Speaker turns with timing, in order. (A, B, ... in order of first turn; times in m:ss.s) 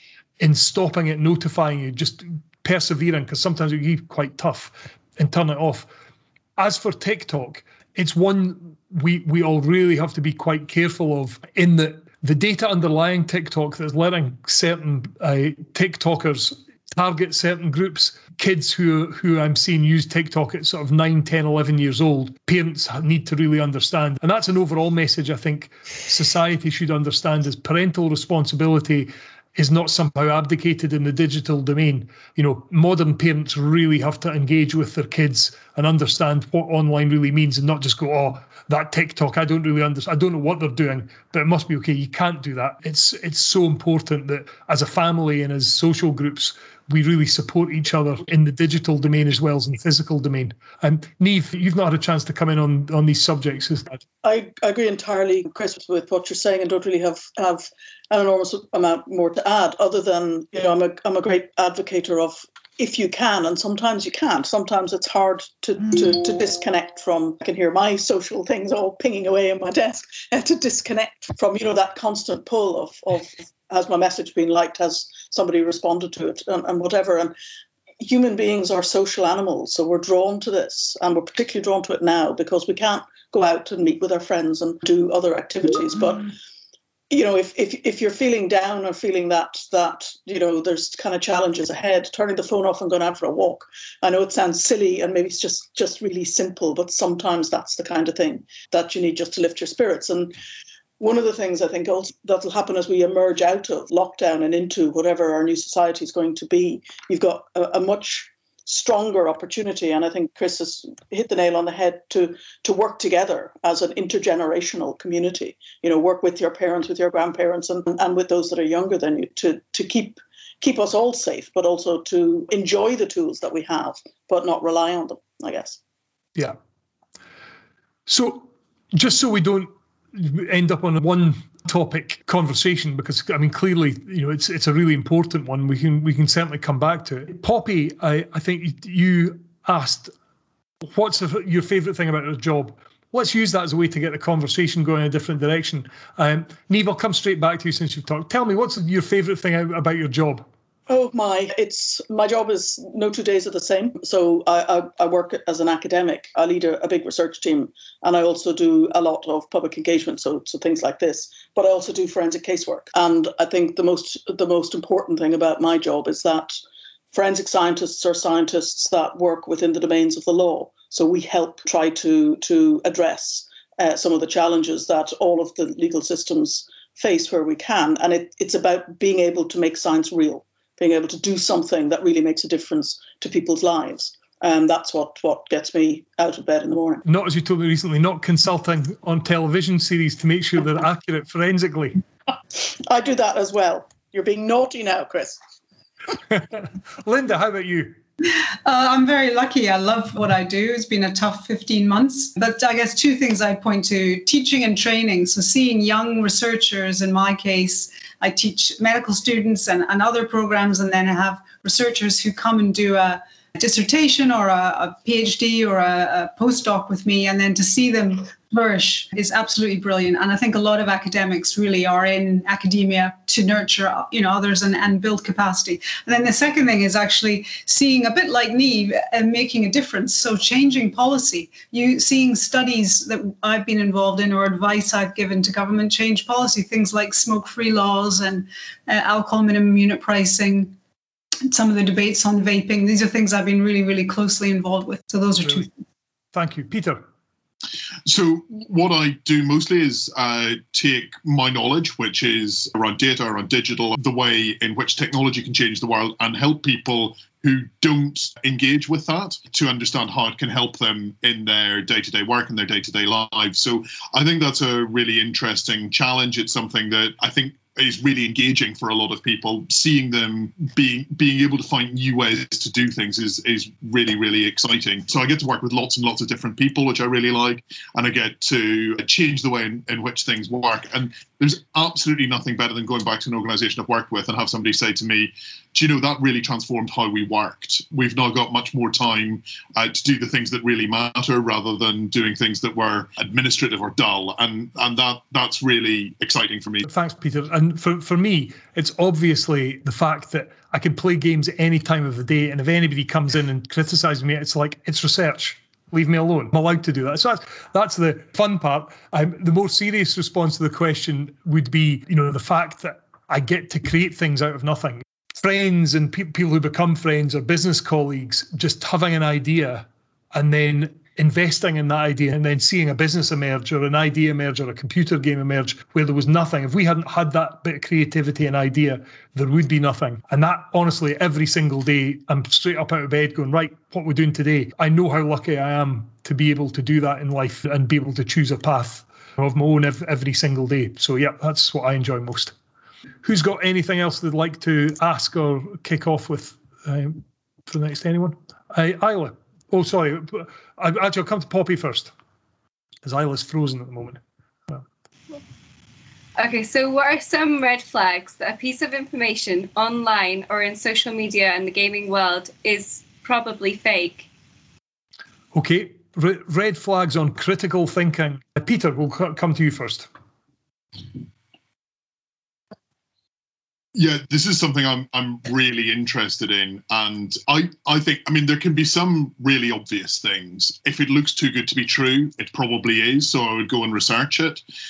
0:00.4-0:05.9 A
0:06.6-0:54.0 A
0:54.2-1:17.4 B
1:18.0-1:26.3 B
1:27.1-1:40.4 B
1:41.0-2:05.8 B
2:08.1-2:20.1 A
2:20.9-2:30.5 A
2:30.9-2:46.6 B
2:47.1-3:07.0 B
3:07.1-3:12.0 A
3:12.9-3:15.4 B
3:16.3-3:18.0 A
3:18.6-4:00.8 C
4:01.5-4:05.7 C
4:06.3-4:07.0 A
4:08.1-4:56.9 D
4:56.9-5:42.5 A
5:43.2-5:52.1 A
5:53.0-5:54.8 A
5:56.4-6:04.3 E
6:05.5-6:10.1 A
6:14.0-6:24.6 D